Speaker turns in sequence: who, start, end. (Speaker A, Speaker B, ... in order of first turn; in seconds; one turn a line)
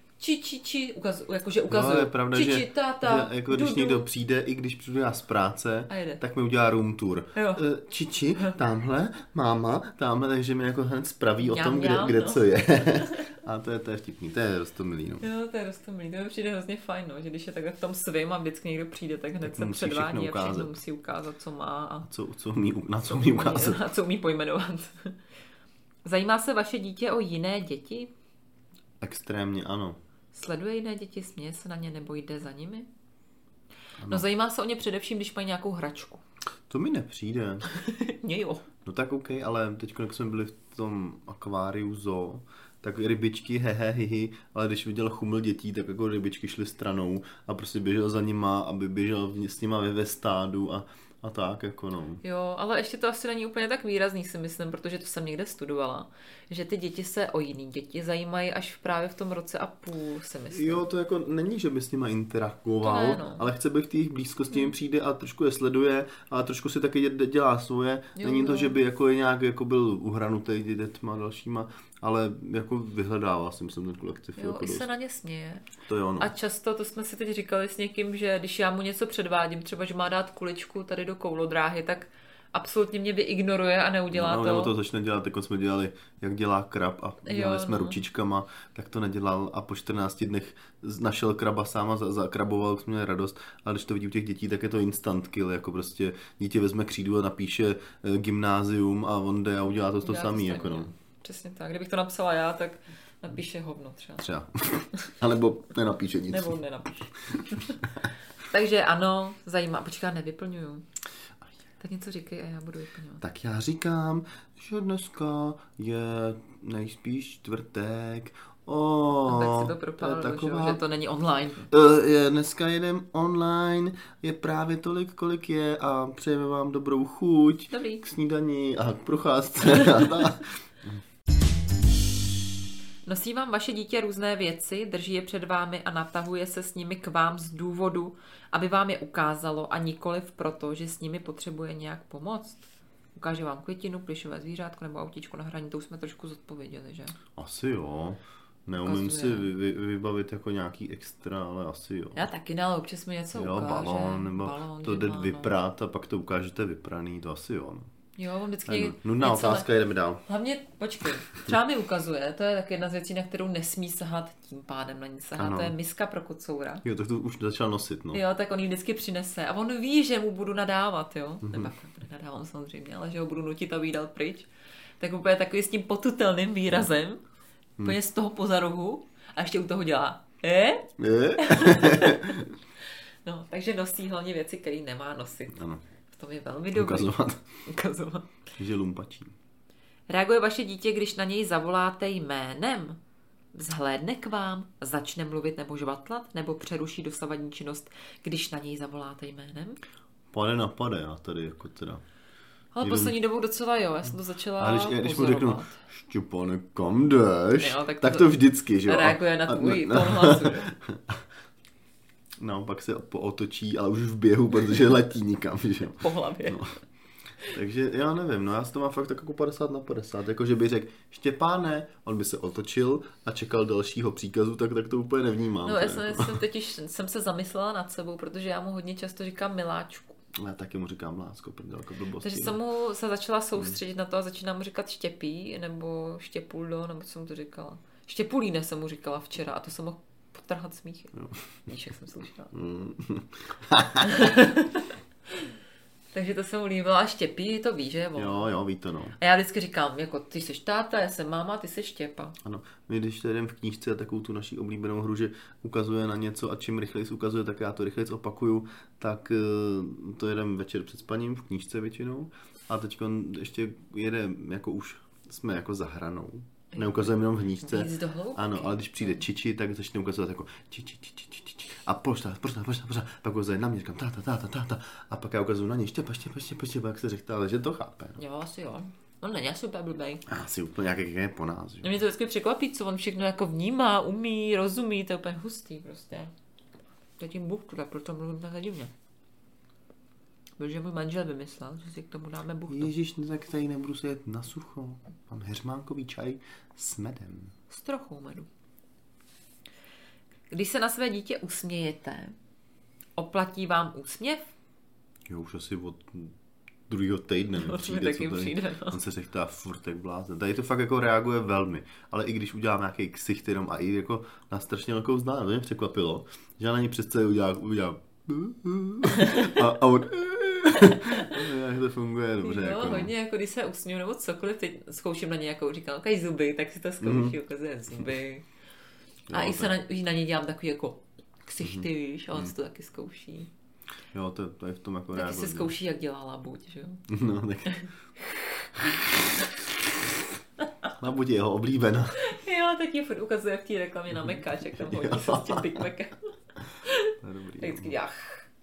Speaker A: 0.2-4.1
Speaker B: 1.7-15.2
Speaker A: 5.9-6.2
Speaker A: 7.3-7.6
Speaker A: 11.4-13.4
Speaker A: 15.2-22.1
Speaker B: 19.4-20.7
Speaker B: 22.0-23.8
Speaker A: 23.1-25.2
Speaker A: 26.0-28.1
Speaker B: 29.0-30.0
Speaker A: 30.3-32.9
Speaker B: 34.0-34.2
Speaker A: 34.1-36.2
Speaker B: 36.7-37.6
Speaker A: 37.7-38.6
Speaker B: 38.8-52.2
Speaker A: 52.2-60.9
Speaker B: 60.5-74.9
Speaker A: 62.8-63.5
Speaker A: 68.2-68.8
Speaker A: 74.4-84.7
Speaker B: 75.8-76.3
Speaker B: 84.1-100.9
Speaker A: 87.2-88.0
Speaker A: 100.0-104.3
Speaker B: 104.2-106.6
Speaker A: 106.3-107.8
Speaker A: 108.4-110.8
Speaker A: 111.8-113.2
Speaker B: 113.2-120.8
Speaker A: 119.2-121.7
Speaker B: 121.7-131.0
Speaker A: 127.7-128.0
Speaker A: 133.1-142.6
Speaker A: 143.2-147.2
Speaker B: 147.3-152.2
Speaker A: 148.8-149.5
Speaker A: 152.1-155.6
Speaker B: 153.3-157.9
Speaker A: 158.2-159.7
Speaker B: 158.7-160.2
Speaker A: 160.2-166.8
Speaker B: 165.3-165.7
Speaker B: 166.8-168.2
Speaker A: 168.1-174.5
Speaker B: 171.4-171.7
Speaker A: 175.0-177.2
Speaker A: 177.8-182.4
Speaker B: 181.0-182.5
Speaker A: 183.2-187.1
Speaker B: 185.5-185.8
Speaker B: 186.7-187.4
Speaker A: 187.7-188.3
Speaker B: 188.6-189.3
Speaker A: 190.1-193.0
Speaker A: 193.5-199.8
Speaker B: 200.3-202.0
Speaker A: 202.7-205.8
Speaker B: 202.8-203.1
Speaker B: 204.6-211.2
Speaker A: 207.6-210.7
Speaker B: 212.4-216.7
Speaker A: 216.0-216.8
Speaker B: 217.5-226.4
Speaker A: 225.6-230.2
Speaker B: 230.3-232.6
Speaker A: 232.2-242.5
Speaker B: 242.5-244.3
Speaker A: 244.0-245.5
Speaker A: 246.1-248.5
Speaker B: 248.2-249.2
Speaker A: 249.2-252.3
Speaker B: 252.4-278.2
Speaker A: 266.7-267.1
Speaker A: 267.6-269.2
Speaker A: 278.2-280.2
Speaker B: 280.2-282.0
Speaker A: 281.8-286.3
Speaker A: 287.2-288.9
Speaker A: 290.6-292.9
Speaker B: 292.7-297.5
Speaker A: 297.7-298.5
Speaker A: 300.5-302.3
Speaker A: 303.1-304.5
Speaker B: 305.3-306.3
Speaker B: 306.9-323.1
Speaker A: 307.5-309.0
Speaker A: 319.1-319.6
Speaker A: 320.7-321.4
Speaker A: 322.4-328.4
Speaker B: 327.0-327.4
Speaker B: 329.3-329.7
Speaker A: 329.3-333.5
Speaker B: 331.6-332.5
Speaker B: 334.1-335.7
Speaker A: 335.1-337.1
Speaker B: 337.1-340.0
Speaker B: 340.9-342.2
Speaker A: 342.2-346.2
Speaker B: 344.2-345.8
Speaker A: 346.8-348.5
Speaker B: 347.2-348.0